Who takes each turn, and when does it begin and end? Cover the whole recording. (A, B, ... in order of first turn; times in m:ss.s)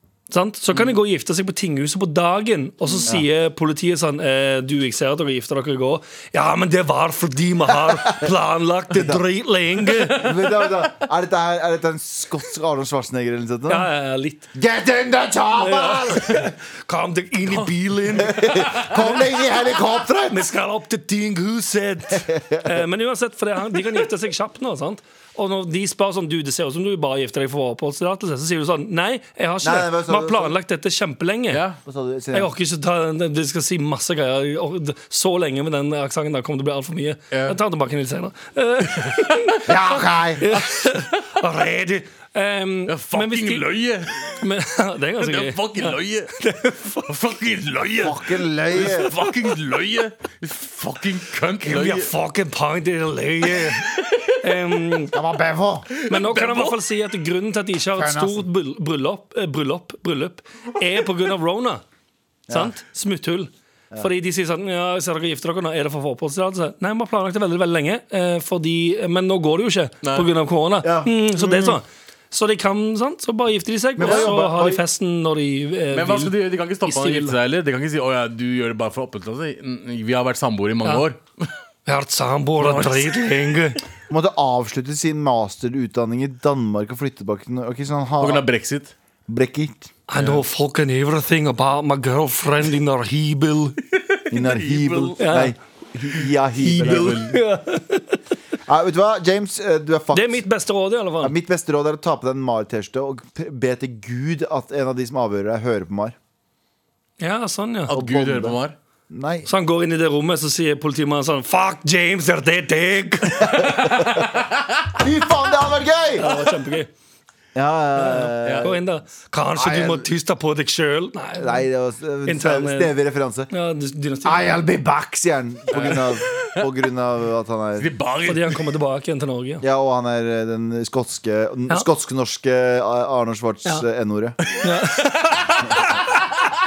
0:00.3-0:10.2 A
0:07.7-0:08.3 B
0:08.9-0:09.2 B
0:10.2-0:13.9 B
0:13.7-0:14.5 A
0:14.5-0:16.5 B
0:15.6-0:19.1 A
0:18.1-0:20.5 B
0:18.5-0:18.9 C
0:20.3-0:31.6 A
0:22.1-0:22.8 B
0:29.6-0:30.6 B
0:31.5-0:31.8 C
0:31.8-0:32.5 B
0:32.3-0:39.7 A
0:37.3-0:37.6 C
0:39.7-0:40.6 B
0:40.4-0:43.6 A
0:41.0-0:41.2 C
0:42.9-0:44.4 C
0:44.4-0:47.1 A
0:45.2-0:46.3 C
0:47.1-0:52.1 C
0:48.0-0:49.1 B
0:51.6-0:55.2 A
0:53.5-0:54.4 C
0:55.1-0:55.9 B
0:55.9-0:56.8 C
0:56.1-1:01.8 A
0:58.0-0:58.5 B
1:02.5-1:02.8 B
1:02.5-1:17.4 A
1:10.8-1:11.8 B
1:14.0-1:14.8 B
1:14.0-1:14.3 C
1:15.9-1:21.5 C
1:21.9-1:23.8 A
1:22.6-1:23.2 C
1:24.1-1:28.4 B
1:28.2-1:28.9 C
1:29.3-1:29.9 B
1:30.1-1:33.8 A
1:30.2-1:30.4 C
1:34.3-1:35.2 C
1:34.3-1:37.4 B
1:35.2-1:35.5 A
1:36.6-1:38.2 A
1:36.8-1:37.2 C
1:38.7-1:40.4 B
1:40.1-1:41.4 A
1:41.2-1:46.2 B
1:47.2-1:48.0 A
1:47.9-1:48.6 B
1:47.9-1:48.8 C
1:49.1-1:49.5 B
1:49.5-1:53.9 A
1:53.4-1:54.3 B
1:54.9-1:56.3 B
1:56.2-1:56.9 A
1:57.6-1:58.8 B
1:58.0-2:01.7 A
1:58.4-1:58.7 C
1:59.6-2:00.1 B
2:01.4-2:03.5 B
2:02.3-2:02.9 A
2:03.5-2:04.6 A
2:04.2-2:07.9 B
2:05.7-2:06.7 C
2:07.8-2:08.6 C
2:08.3-2:09.6 A
2:09.6-2:14.4 B
2:14.6-2:15.9 A